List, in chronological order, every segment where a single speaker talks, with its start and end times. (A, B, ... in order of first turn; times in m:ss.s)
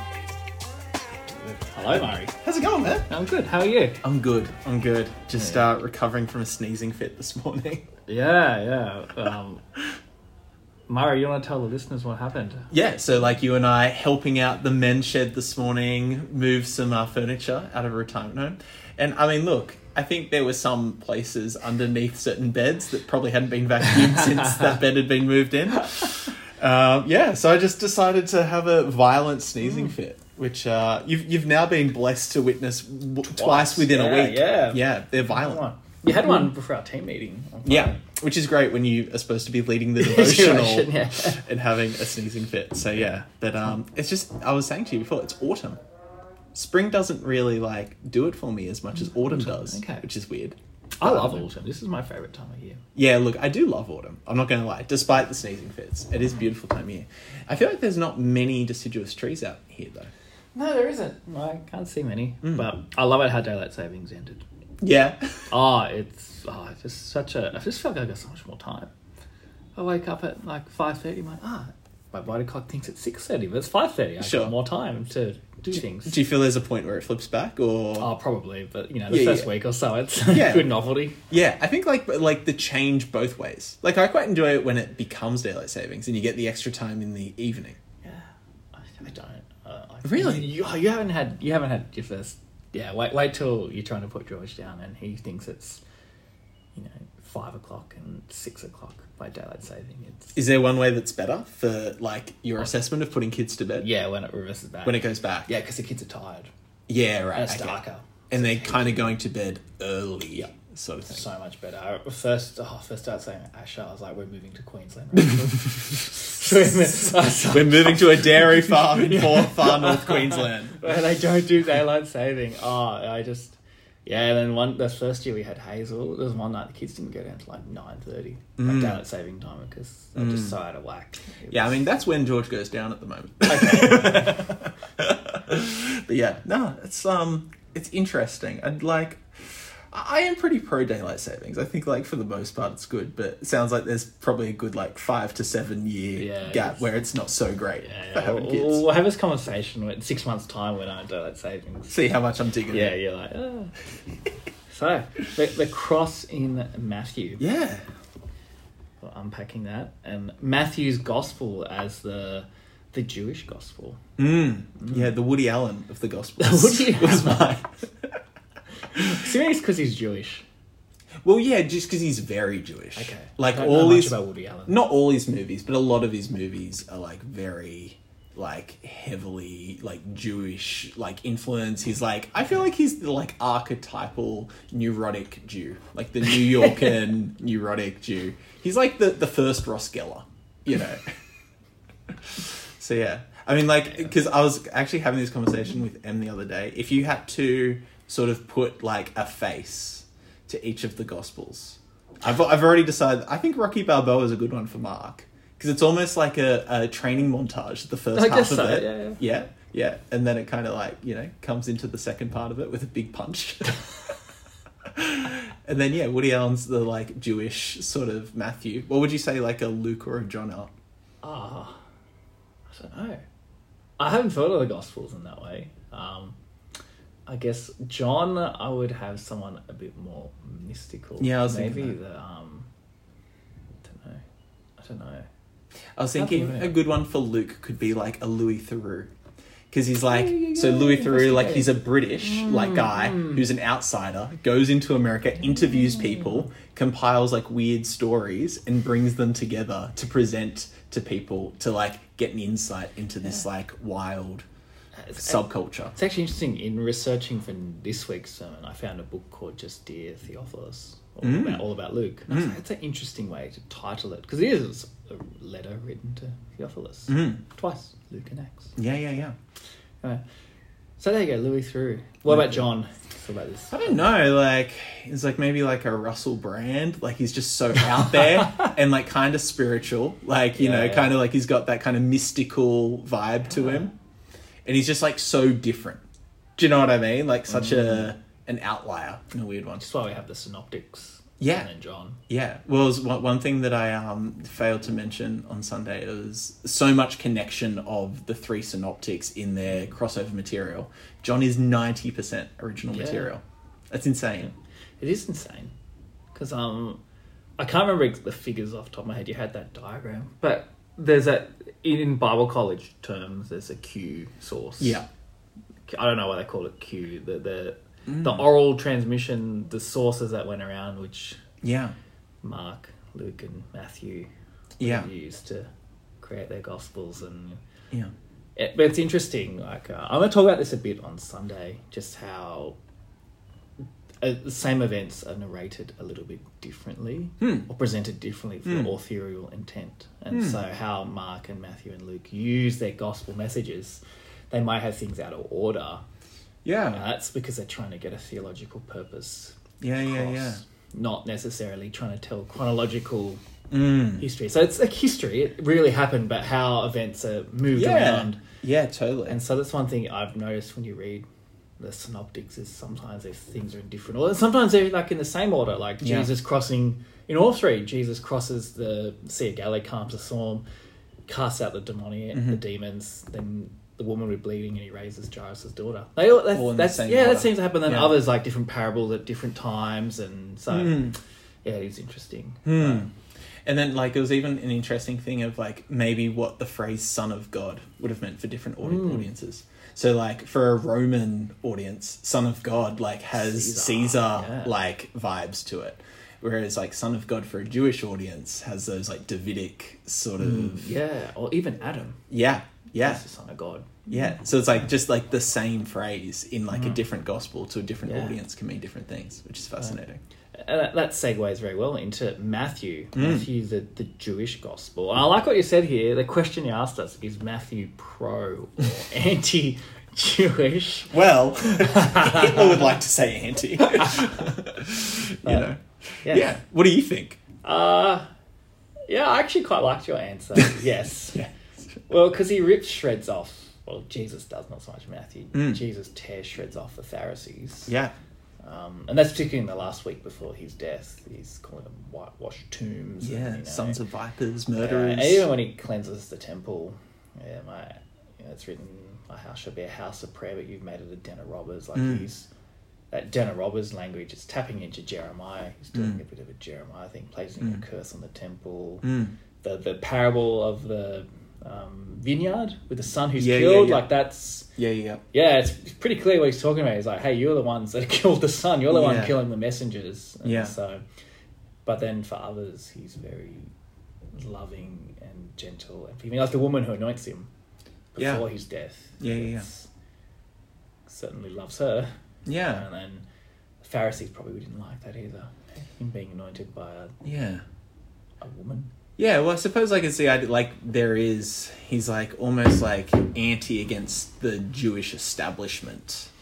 0:01.4-0:02.3 A
0:02.3-0:03.1 B
0:03.1-0:04.0 A
0:04.0-0:07.8 B
0:05.3-0:05.6 A
0:08.1-0:09.6 A
0:10.9-0:12.7 A
0:12.7-0:35.6 B
0:25.8-0:26.1 A
0:29.6-0:29.9 A
0:33.2-0:38.0 A
0:37.6-0:45.8 B
0:40.0-0:41.4 A
0:42.9-0:43.2 A
0:46.5-0:51.4 B
0:48.9-0:50.0 A
0:51.0-0:52.8 A
0:52.9-1:00.1 B
1:00.5-1:04.4 A
1:02.4-1:02.7 B
1:04.8-1:05.5 B
1:05.5-1:08.9 A
1:09.8-1:16.2 A
1:14.2-1:14.5 B
1:15.7-1:18.1 B
1:18.0-1:21.2 A
1:19.1-1:19.5 B
1:20.3-1:20.7 B
1:21.3-1:27.8 B
1:28.0-1:35.8 A
1:30.0-1:30.4 B
1:36.7-1:40.4 A
1:40.3-1:43.9 B
1:43.8-1:46.5 A
1:44.8-1:45.5 B
1:46.9-1:51.2 B
1:47.3-1:49.2 A
1:51.0-2:11.8 A
1:57.4-2:00.8 B
2:08.6-2:09.0 B
2:10.2-2:10.6 B
2:11.5-2:28.8 B
2:13.5-2:14.6 A
2:26.2-2:26.9 A
2:27.8-2:32.0 A
2:31.9-2:33.0 B
2:32.7-2:33.7 A
2:34.7-2:37.4 A
2:37.4-2:37.8 B
2:39.0-2:44.0 A
2:44.2-2:48.2 B
2:44.8-2:45.1 A
2:46.4-2:47.5 A
2:48.8-2:50.4 A
2:51.2-2:54.2 B
2:53.0-2:54.8 A
2:54.7-3:11.1 B
3:06.3-3:07.0 A
3:12.1-3:34.2 B
3:28.1-3:29.2 A
3:34.8-3:40.7 B
3:41.2-3:41.8 A
3:42.7-3:43.2 A
3:44.0-3:46.4 A
3:47.3-3:52.7 A
3:51.2-3:52.0 B
3:53.8-3:54.2 A
3:54.8-3:55.3 A
3:56.0-3:59.1 B
3:56.1-3:56.8 A
3:59.7-4:14.4 B
4:00.0-4:03.4 A
4:05.4-4:06.5 A
4:15.0-4:28.8 A
4:15.2-4:15.9 B
4:21.2-4:21.6 B
4:22.3-4:22.6 B
4:27.1-4:27.4 B
4:28.8-4:29.4 B
4:31.0-4:34.0 A
4:32.3-4:32.6 B
4:33.7-4:43.9 B
4:38.4-4:38.7 A
4:40.5-4:41.1 A
4:43.5-4:43.9 A
4:44.6-4:46.0 B
4:46.6-4:49.8 B
4:47.5-4:48.1 A
4:49.8-4:52.2 A
4:51.4-4:51.7 B
4:52.3-5:04.5 B
5:02.9-5:03.3 A
5:04.4-5:05.7 A
5:06.3-5:07.0 A
5:07.6-5:15.0 A
5:14.8-5:15.1 B
5:15.9-5:21.4 A
5:18.1-5:18.4 B
5:21.6-5:22.0 B
5:22.4-5:25.7 A
5:24.8-5:25.1 B
5:26.2-5:27.6 A
5:28.6-5:32.8 A
5:34.2-5:46.0 A
5:37.4-5:37.7 B
5:38.6-5:38.9 B
5:40.3-5:40.6 B
5:46.6-5:47.0 B
5:46.9-5:53.4 A
5:49.8-5:50.6 B
5:53.7-5:54.2 B
5:54.2-5:58.4 A
5:57.7-5:59.4 B
5:59.3-6:01.2 A
6:01.8-6:10.6 A
6:06.0-6:06.3 B
6:11.3-6:23.1 A
6:12.3-6:12.6 B
6:16.5-6:18.2 B
6:20.7-6:21.2 B
6:22.6-6:23.1 B
6:23.6-6:40.9 B
6:28.8-6:29.3 A
6:33.3-6:34.7 A
6:40.4-6:42.2 A
6:42.3-6:43.2 B
6:43.0-6:44.4 A
6:44.1-6:50.2 B
6:46.7-6:47.0 A
6:48.0-6:48.4 A
6:50.5-7:03.0 A
6:53.1-6:53.5 B
7:01.1-7:07.4 B
7:03.8-7:04.5 A
7:05.4-7:05.7 A
7:06.2-7:06.6 A
7:07.6-7:08.3 A
7:09.1-7:11.5 A
7:12.1-7:17.9 A
7:15.5-7:15.8 B
7:17.9-7:18.1 B
7:18.6-7:24.0 A
7:23.2-7:25.5 B
7:24.7-7:32.5 A
7:31.9-7:32.2 B
7:33.1-7:39.1 A
7:35.9-7:36.2 B
7:39.0-7:39.3 B
7:39.6-7:44.7 A
7:43.4-7:44.0 B
7:44.8-7:45.2 B
7:45.3-7:51.0 A
7:48.9-7:49.4 B
7:50.4-7:50.8 B
7:51.8-7:53.7 A
7:54.3-7:57.5 A
7:58.1-7:59.9 A
7:58.2-7:58.4 B
7:59.2-7:59.7 B
8:01.1-8:02.1 A
8:02.4-8:02.8 B
8:02.6-8:03.2 A
8:03.8-8:07.2 A
8:07.2-8:07.6 B
8:08.4-8:08.9 A
8:09.2-8:16.3 B